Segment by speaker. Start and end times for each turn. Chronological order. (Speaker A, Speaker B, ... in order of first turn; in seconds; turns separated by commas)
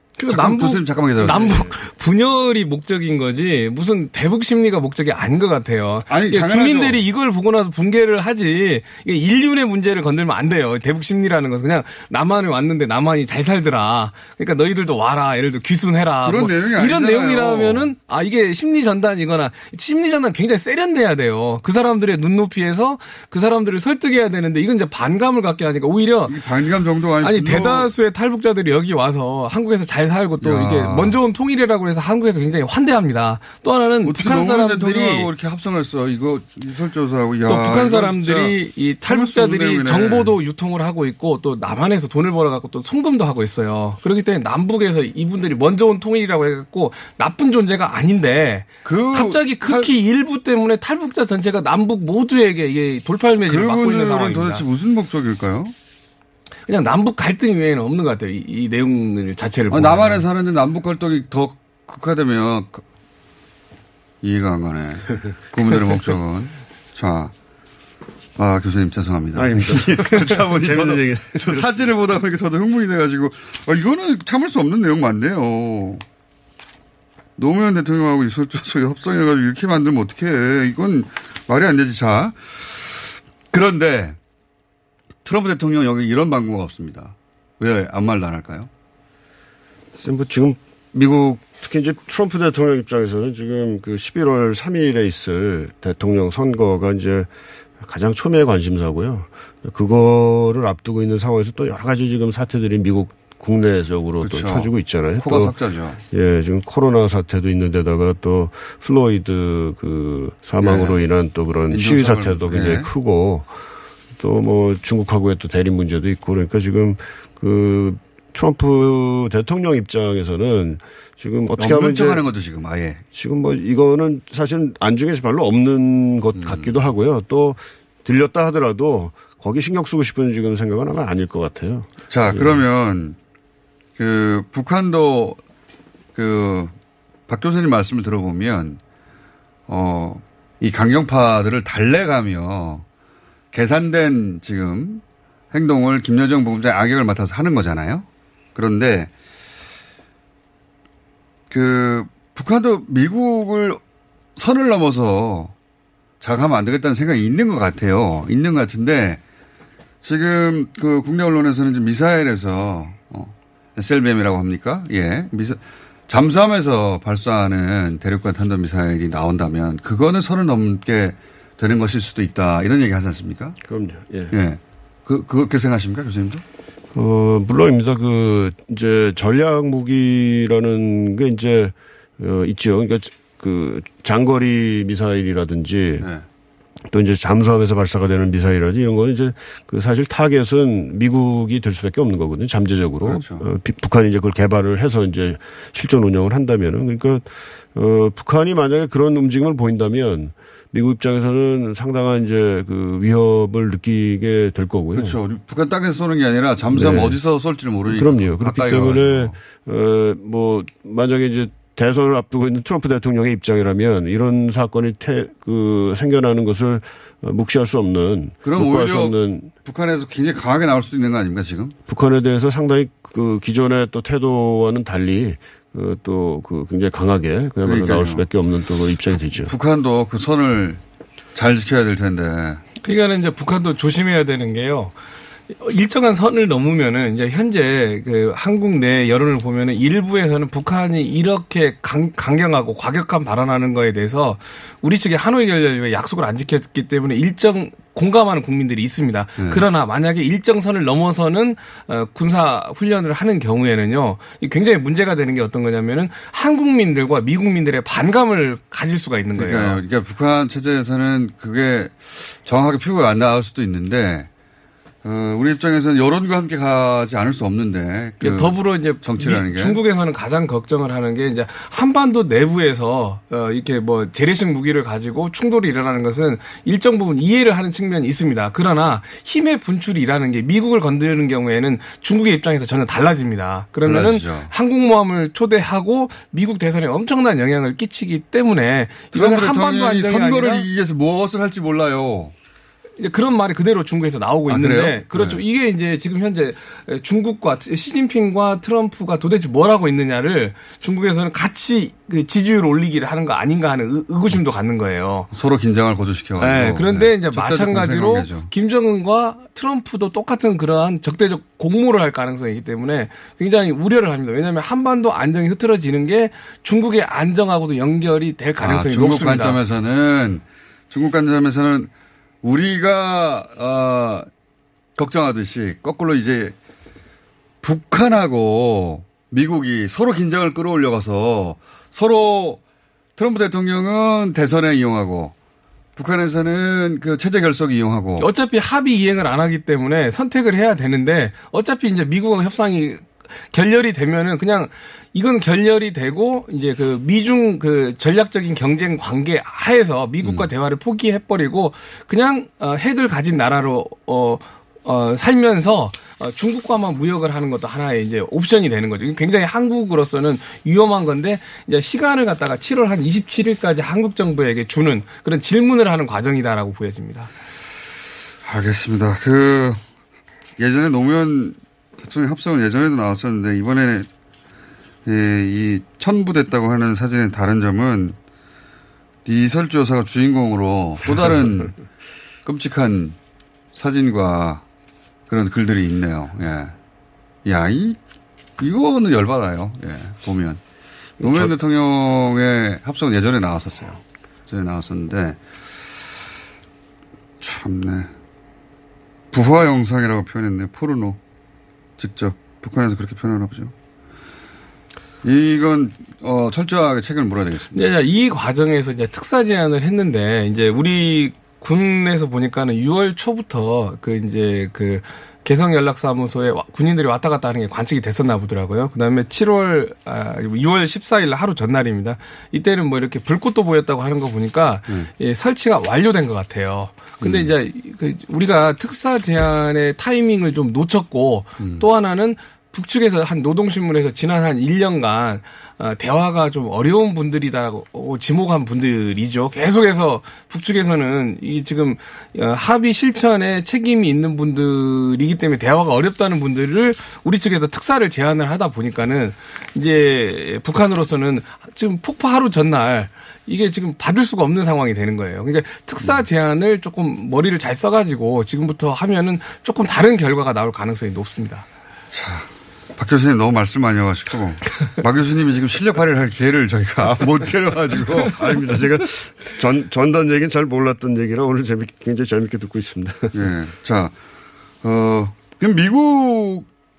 Speaker A: 0.2-26.3, Speaker B: 0.3-1.7, Speaker B: 6.1-7.0, Speaker B: 16.2-17.9, Speaker B: 26.3-27.9, Speaker A: 27.2-35.3, Speaker B: 30.4-31.2, Speaker B: 34.0-40.3, Speaker A: 37.5-54.6, Speaker B: 48.8-49.9, Speaker B: 53.5-55.7, Speaker A: 56.7-60.2, Speaker B: 59.7-62.8, Speaker B: 64.2-67.3, Speaker B: 68.4-76.0, Speaker C: 69.3-71.8, Speaker B: 77.4-83.0, Speaker B: 83.5-84.2, Speaker B: 85.2-88.7, Speaker C: 90.0-105.5, Speaker B: 104.2-106.0, Speaker C: 106.1-113.5, Speaker B: 110.6-111.0, Speaker B: 111.7-112.9, Speaker C: 114.2-122.2, Speaker B: 121.6-123.0, Speaker C: 123.1-132.6, Speaker B: 126.3-126.7, Speaker B: 132.1-133.2, Speaker B: 134.0-135.4, Speaker B: 136.1-136.7, Speaker B: 137.3-138.8, Speaker B: 139.7-142.8, Speaker B: 143.5-149.1, Speaker B: 151.5-153.8, Speaker B: 154.3-155.5, Speaker B: 156.2-159.2, Speaker B: 160.0-173.6, Speaker C: 173.6-174.3, Speaker B: 174.3-176.4, Speaker C: 176.9-186.1, Speaker C: 186.9-205.2, Speaker B: 193.0-193.4, Speaker B: 204.9-209.3, Speaker C: 206.7-207.2, Speaker C: 207.9-219.5, Speaker B: 218.4-221.7, Speaker C: 221.9-229.5, Speaker B: 227.6-228.2, Speaker B: 229.4-230.8, Speaker B: 231.3-232.6, Speaker A: 232.8-234.9, Speaker A: 235.6-259.8, Speaker B: 249.4-249.6, Speaker B: 259.4-264.3, Speaker B: 265.0-269.8, Speaker A: 268.2-290.7, Speaker B: 283.8-284.5, Speaker B: 289.1-292.3, Speaker A: 293.0-305.3, Speaker B: 294.5-295.4, Speaker B: 305.3-308.5, Speaker A: 306.4-319.6, Speaker B: 318.6-321.9, Speaker B: 322.4-324.3, Speaker B: 324.9-326.5, Speaker B: 327.6-332.6, Speaker B: 333.2-335.3, Speaker B: 335.9-338.3, Speaker A: 338.2-367.3, Speaker B: 350.2-350.5, Speaker B: 368.4-369.8, Speaker B: 370.6-374.1, Speaker B: 375.1-378.1, Speaker B: 379.2-381.8, Speaker B: 382.4-383.1, Speaker B: 383.7-384.6, Speaker B: 385.3-386.7, Speaker B: 387.4-388.0, Speaker B: 388.6-390.6, Speaker B: 391.2-395.4, Speaker C: 391.2-391.5, Speaker B: 397.4-398.1, Speaker B: 399.3-401.2, Speaker B: 402.0-403.7, Speaker B: 405.2-407.9, Speaker A: 407.7-461.6, Speaker B: 427.2-427.5, Speaker B: 431.6-431.9, Speaker B: 462.1-468.8, Speaker C: 468.4-473.3, Speaker B: 473.3-474.1, Speaker B: 474.8-476.6